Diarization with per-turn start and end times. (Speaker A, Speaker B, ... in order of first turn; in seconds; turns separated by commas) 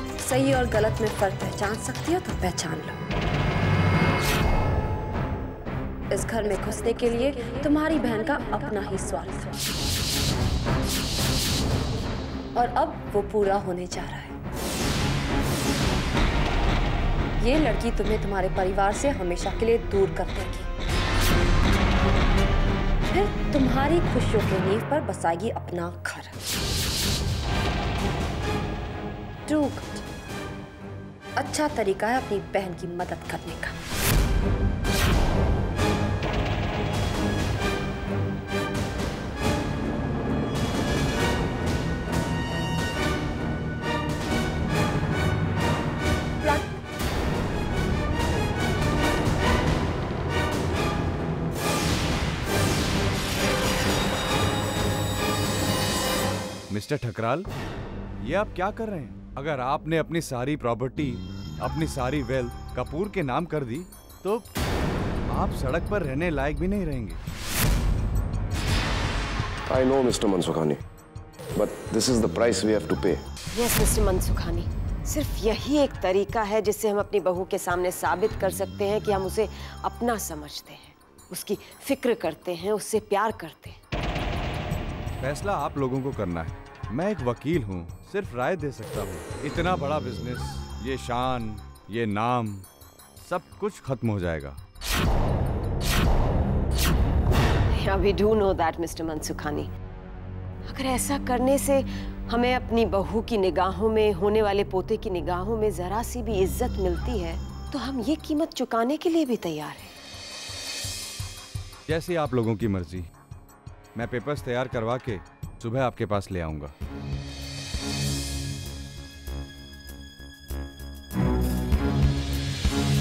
Speaker A: 0.2-3.0, Speaker A: 6.1-9.6, Speaker A: 12.6-14.4, Speaker A: 17.4-20.7, Speaker A: 23.1-26.4, Speaker A: 29.5-30.0, Speaker A: 31.4-33.8, Speaker B: 56.7-57.5, Speaker B: 58.2-64.5, Speaker B: 65.3-67.2, Speaker C: 69.7-70.8, Speaker C: 71.6-73.2, Speaker D: 73.5-83.8, Speaker B: 85.2-92.7, Speaker B: 93.2-94.6, Speaker D: 97.7-99.7, Speaker D: 100.7-109.9, Speaker B: 111.9-113.1, Speaker B: 114.0-116.7